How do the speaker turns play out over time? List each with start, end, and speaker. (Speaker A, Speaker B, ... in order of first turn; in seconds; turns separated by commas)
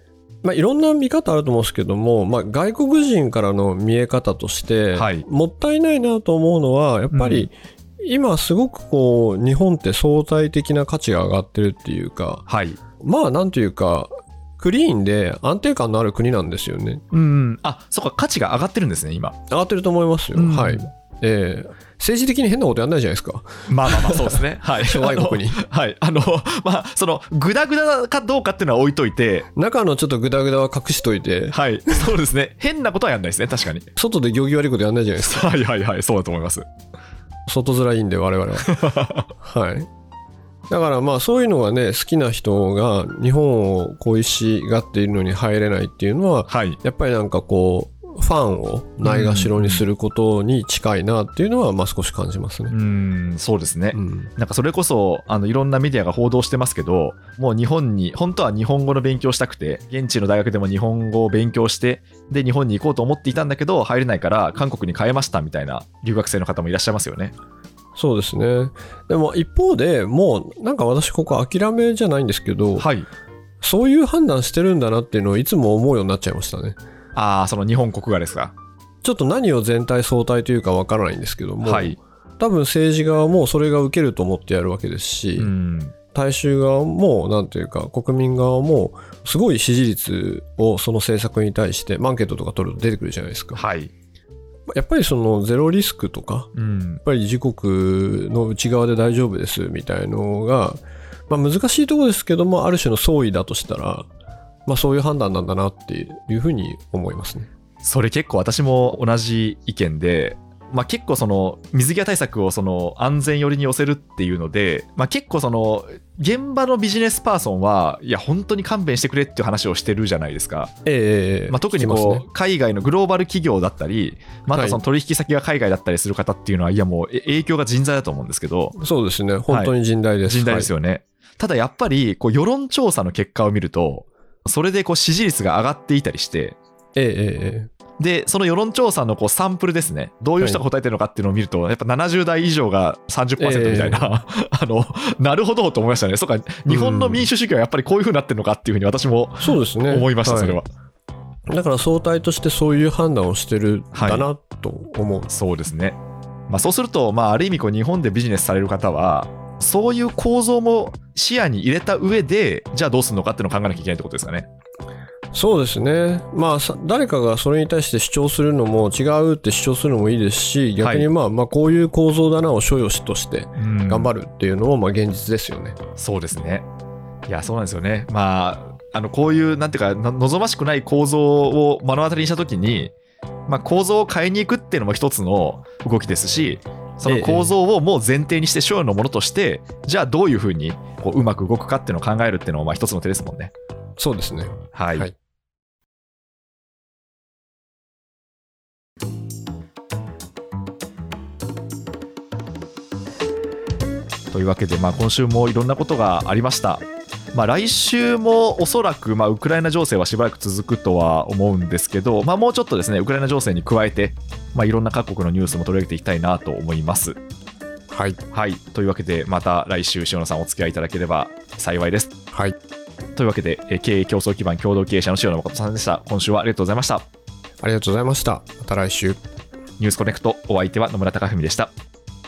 Speaker A: 0.4-12.4, Speaker B: 4.9-5.2, Speaker B: 7.1-7.5, Speaker B: 12.5-12.8, Speaker A: 13.0-17.0, Speaker B: 17.1-19.4, Speaker A: 19.5-25.6, Speaker B: 20.3-20.9, Speaker B: 23.7-29.5, Speaker A: 29.5-32.1, Speaker B: 31.5-33.9, Speaker A: 34.0-35.5, Speaker B: 35.2-36.7, Speaker A: 37.5-38.8, Speaker B: 38.6-39.3, Speaker A: 39.3-39.9, Speaker A: 40.7-52.7, Speaker B: 46.5-46.8, Speaker B: 49.0-49.8, Speaker B: 52.7-67.3, Speaker A: 53.9-54.3, Speaker A: 67.9-72.9, Speaker B: 72.8-73.1, Speaker A: 73.6-76.8, Speaker B: 77.1-78.5, Speaker A: 79.0-85.5, Speaker B: 81.6-82.0, Speaker B: 85.3-85.9, Speaker A: 86.1-93.6, Speaker B: 93.5-93.9, Speaker A: 94.7-96.5, Speaker B: 96.5-97.0, Speaker A: 97.0-104.1, Speaker A: 104.7-107.5, Speaker B: 107.8-120.7, Speaker A: 120.8-122.2, Speaker B: 121.5-128.8, Speaker A: 124.5-124.8, Speaker A: 128.8-130.7, Speaker B: 130.2-136.6, Speaker A: 136.9-137.7, Speaker B: 138.0-150.7, Speaker A: 143.4-144.1, Speaker A: 146.7-147.3, Speaker A: 149.4-150.6, Speaker A: 151.5-155.3, Speaker B: 153.9-154.3, Speaker B: 155.3-156.0, Speaker B: 156.5-164.5, Speaker A: 165.3-175.8, Speaker B: 170.8-171.1, Speaker B: 173.6-174.1, Speaker B: 176.0-176.7, Speaker B: 177.3-182.9, Speaker B: 183.5-193.5, Speaker A: 187.1-187.5, Speaker A: 194.0-195.1, Speaker B: 194.7-195.1, Speaker B: 204.3-217.2, Speaker A: 217.9-218.2, Speaker B: 218.3-222.1, Speaker B: 223.2-227.1, Speaker A: 227.6-229.2, Speaker B: 229.8-231.7